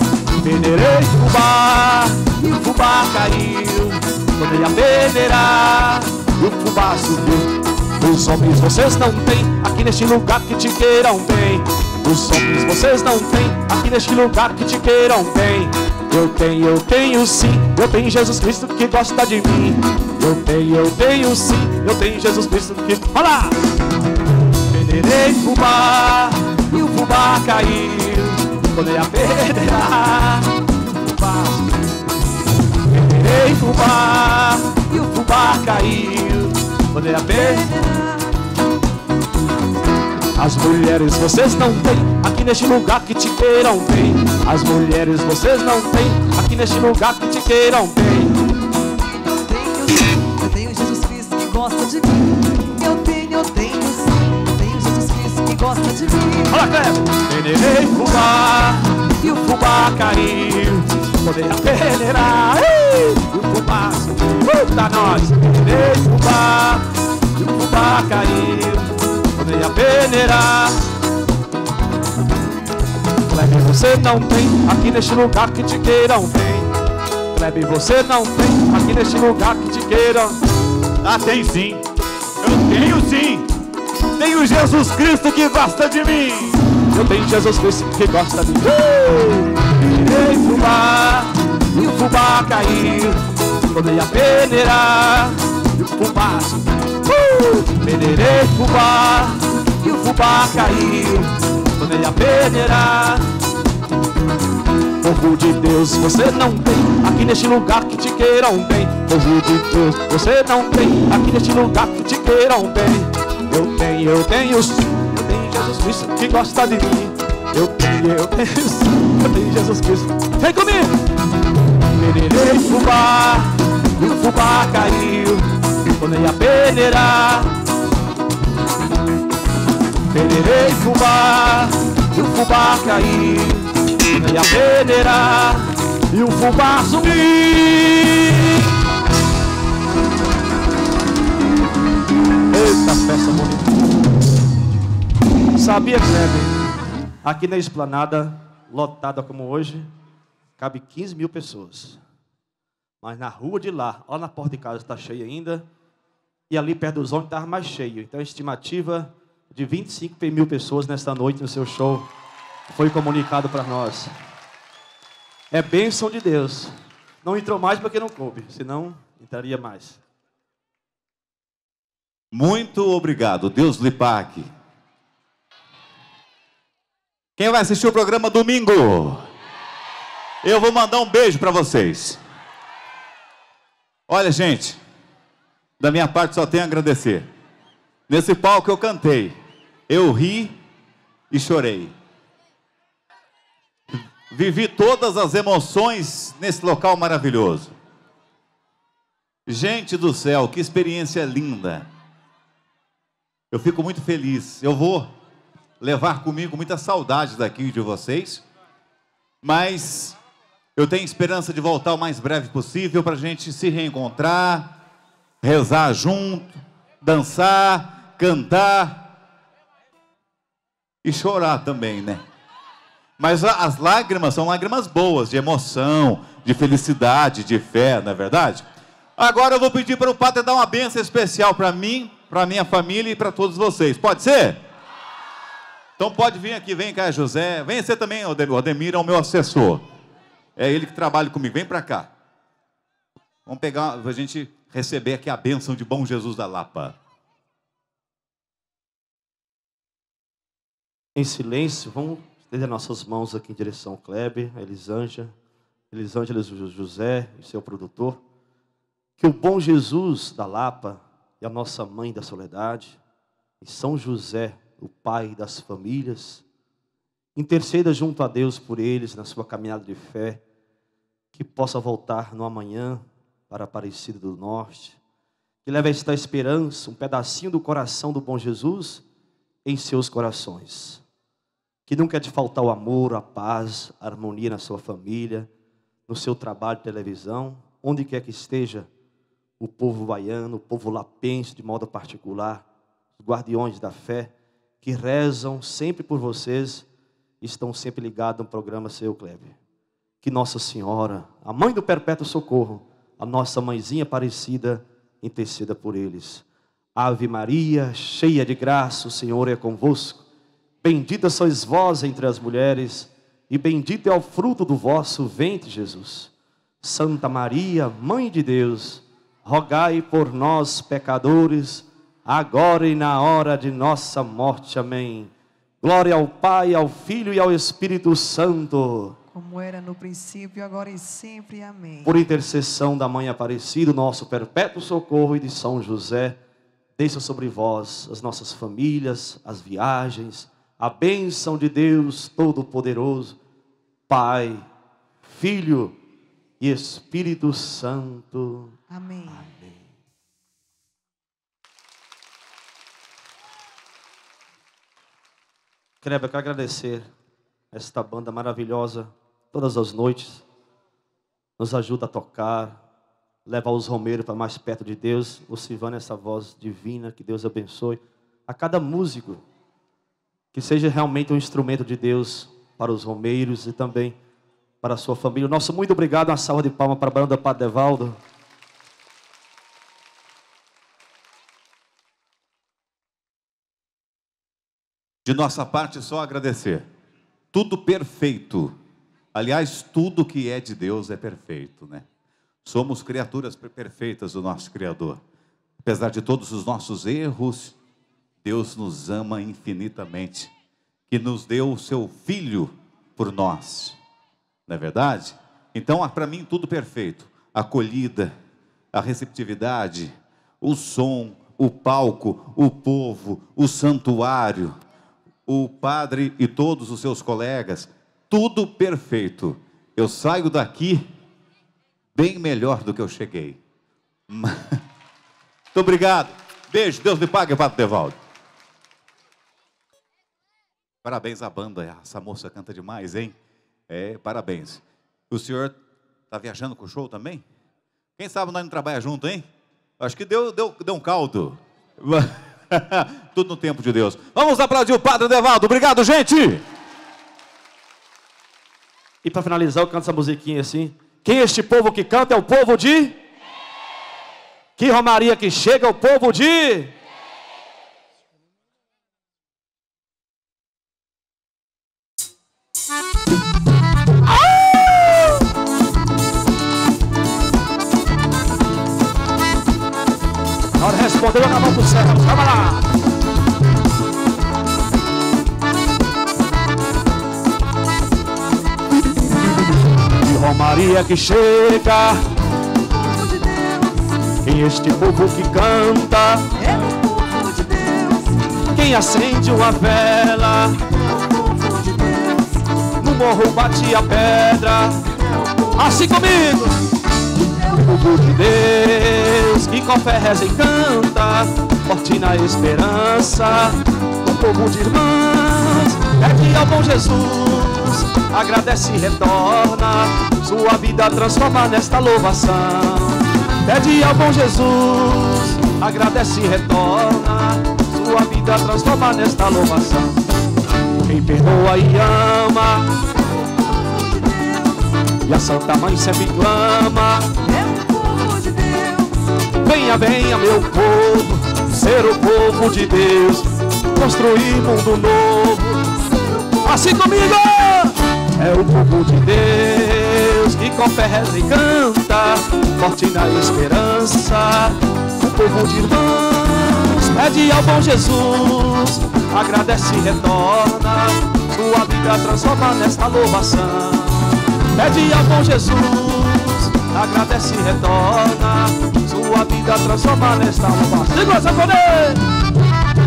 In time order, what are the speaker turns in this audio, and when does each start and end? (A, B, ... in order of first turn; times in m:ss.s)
0:00.4-0:23.6 A
0:24.6-0:31.7 A
0:32.9-0:37.7 A
0:37.4-0:38.3 B
0:40.4-0:48.4 A
0:49.3-0:56.6 B
0:56.5-1:10.9 A
1:13.3-1:16.7 A
1:17.3-1:20.4 A
1:21.0-1:21.8 C
1:22.4-1:23.5 C
1:24.2-1:26.6 C
1:26.9-1:33.2 A
1:33.7-1:43.3 A
1:45.0-2:01.0 A
2:01.8-2:07.6 A
2:10.1-2:18.5 A
2:22.5-2:23.9 A
2:25.6-2:26.6 A
2:27.2-2:29.9 A
2:30.6-2:32.0 A
2:33.0-2:35.7 A
2:36.5-2:42.1 A
2:42.7-2:44.1 A
2:45.5-2:50.0 A
2:52.3-2:54.5 C
2:57.4-2:59.2 C
3:00.4-3:02.2 C
3:04.1-3:04.8 C
3:05.8-3:07.3 C
3:08.1-3:09.4 C
3:09.9-3:10.6 C
3:11.3-3:11.9 C
3:13.9-3:17.7 C
3:19.5-3:21.9 C
3:23.5-3:25.1 C
3:25.8-3:28.4 C
3:29.4-3:30.2 C
3:30.8-3:34.8 C
3:35.4-3:39.1 C
3:41.0-3:42.2 C
3:43.2-3:48.7 C
3:49.2-3:54.6 C
3:56.0-3:59.8 C
4:00.6-4:02.1 C
4:03.5-4:07.0 C
4:11.2-4:15.4 A
4:15.9-4:18.2 A
4:19.2-4:23.0 A
4:23.6-4:26.4 A
4:27.4-4:30.4 A
4:31.3-4:35.0 A
4:35.6-4:39.0 A
4:39.6-4:41.0 A
4:41.9-4:45.5 A
4:46.1-4:48.9 A
4:49.6-4:52.6 A
4:53.2-4:56.9 A
4:57.4-4:59.6 A
5:00.2-5:06.4 A
5:07.0-5:10.2 A
5:10.8-5:29.2 A
5:29.3-5:32.1 B
5:32.0-5:36.4 A
5:37.0-5:43.4 A
5:44.1-5:44.7 A
5:45.2-5:46.0 A
5:46.6-5:48.8 A
5:48.9-5:49.4 B
5:56.0-5:57.1 A
5:57.7-6:00.4 A
6:01.6-6:02.8 A
6:03.5-6:09.4 A
6:10.5-6:14.2 A
6:14.8-6:18.2 A
6:25.2-6:26.9 C
6:27.5-6:28.7 C
6:29.3-6:32.0 C
6:32.6-6:35.2 C
6:35.8-6:37.8 C
6:38.4-6:40.5 C
6:41.1-6:44.0 C
6:44.7-6:48.3 C
6:48.9-6:54.8 C
6:55.5-7:01.0 C
7:02.2-7:03.6 C
7:04.3-7:04.8 C
7:05.7-7:08.2 C
7:11.0-7:13.4 C
7:13.9-7:15.8 C
7:16.3-7:17.4 C
7:18.2-7:19.5 C
7:20.0-7:26.6 C
7:29.2-7:33.2 A
7:34.8-7:36.9 A
7:50.8-7:52.8 A
8:00.2-8:02.2 A
8:02.9-8:04.2 B
8:04.4-8:06.5 A
8:06.6-8:08.5 B
8:08.7-8:10.9 A
8:11.1-8:12.6 B
8:13.0-8:15.2 A
8:15.7-8:16.8 A
8:17.6-8:40.2 A
8:41.0-8:42.9 A
8:43.5-8:45.0 B
8:45.2-8:47.3 A
8:47.4-8:49.2 B
8:49.6-8:55.9 A
8:56.6-9:22.3 A